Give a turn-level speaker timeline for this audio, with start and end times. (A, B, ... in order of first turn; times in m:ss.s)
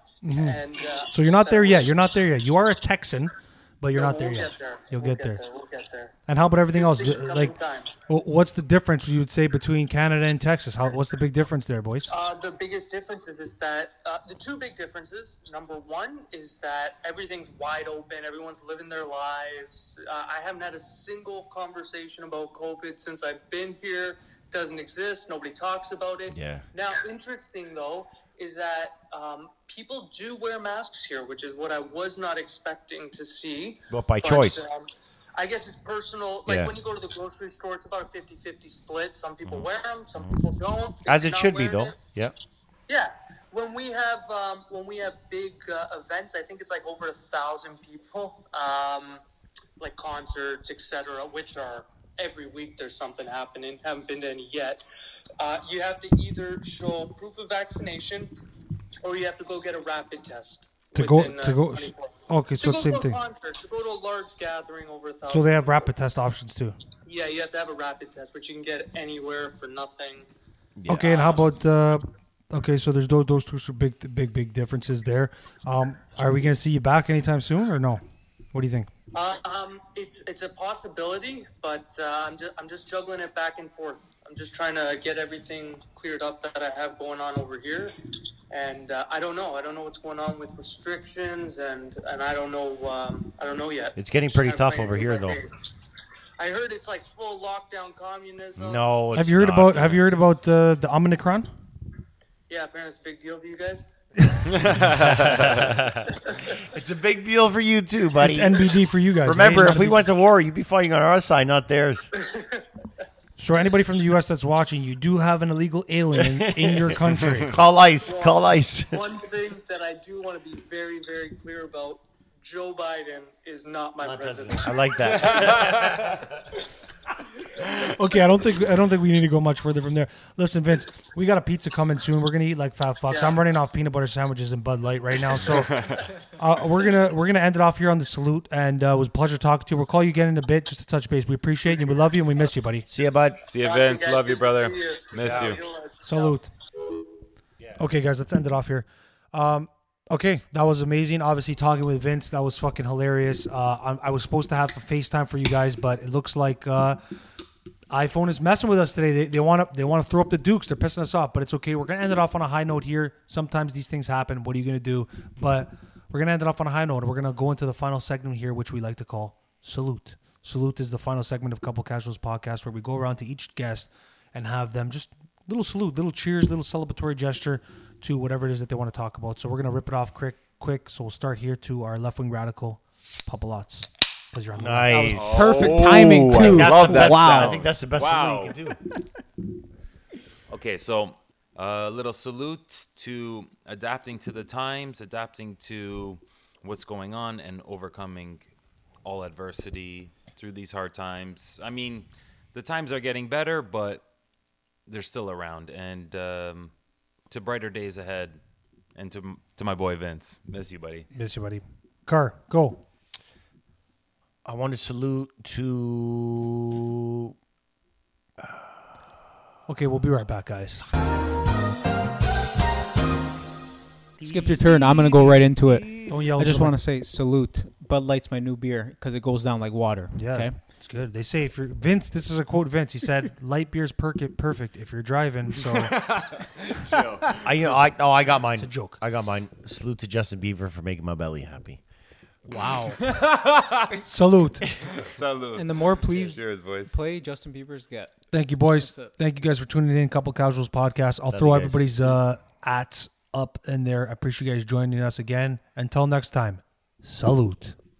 0:00.2-0:05.4 A
0:00.3-0:01.9 B
0:03.9-0:06.2 B
0:06.3-0:07.6 A
0:06.7-0:07.9 B
0:08.1-0:12.1 A
0:12.1-0:42.0 B
0:26.3-0:26.6 C
0:33.9-0:34.6 C
0:36.5-0:36.7 C
0:39.4-0:40.3 C
0:41.0-0:42.3 C
0:42.9-0:49.2 B
0:49.8-0:54.8 B
0:55.4-0:58.3 B
0:59.0-1:05.7 B
1:00.9-1:03.2 A
1:05.3-1:06.8 A
1:07.0-1:10.3 B
1:10.8-1:11.2 C
1:10.9-1:18.0 A
1:11.1-1:11.4 B
1:18.5-1:18.9 A
1:19.1-1:27.9 B
1:28.5-1:35.5 B
1:34.0-1:35.4 C
1:36.4-1:38.9 B
1:38.6-1:40.1 C
1:39.1-1:41.5 A
1:42.5-1:43.8 B
1:44.2-1:45.0 A
1:44.5-1:45.5 D
1:44.8-1:48.7 C
1:48.2-1:50.0 A
1:49.2-1:52.1 C
1:52.2-1:52.6 B
1:53.4-1:57.5 A
1:56.1-1:59.1 C
1:58.0-2:05.7 B
2:04.0-2:06.4 C
2:05.3-2:05.8 D
2:07.6-2:22.9 A
2:13.1-2:13.4 B
2:15.5-2:16.0 D
2:22.9-2:23.4 C
2:23.5-2:25.6 D
2:23.6-2:26.3 B
2:25.2-2:25.6 C
2:26.0-2:26.5 A
2:27.8-2:37.0 A
2:37.9-3:05.7 A
3:04.6-3:08.8 C
3:05.1-3:08.6 D
3:05.3-3:07.7 E
3:10.5-3:18.5 D
3:19.0-3:24.0 D
3:24.9-3:26.7 D
3:27.3-3:28.4 D
3:28.9-3:31.1 D
3:31.1-3:32.8 A
3:34.4-3:37.3 C
3:39.7-3:40.8 A
3:44.2-3:50.5 E
3:46.0-3:46.8 A
3:50.1-3:55.9 A
3:55.6-3:57.5 D
3:57.4-4:01.8 C
3:58.6-3:59.0 A
4:02.4-4:03.1 E
4:02.8-4:04.0 D
4:04.0-4:04.7 A
4:04.8-4:06.9 D
4:05.5-4:08.2 E
4:08.3-4:17.8 A
4:08.8-4:09.1 E
4:11.3-4:12.2 C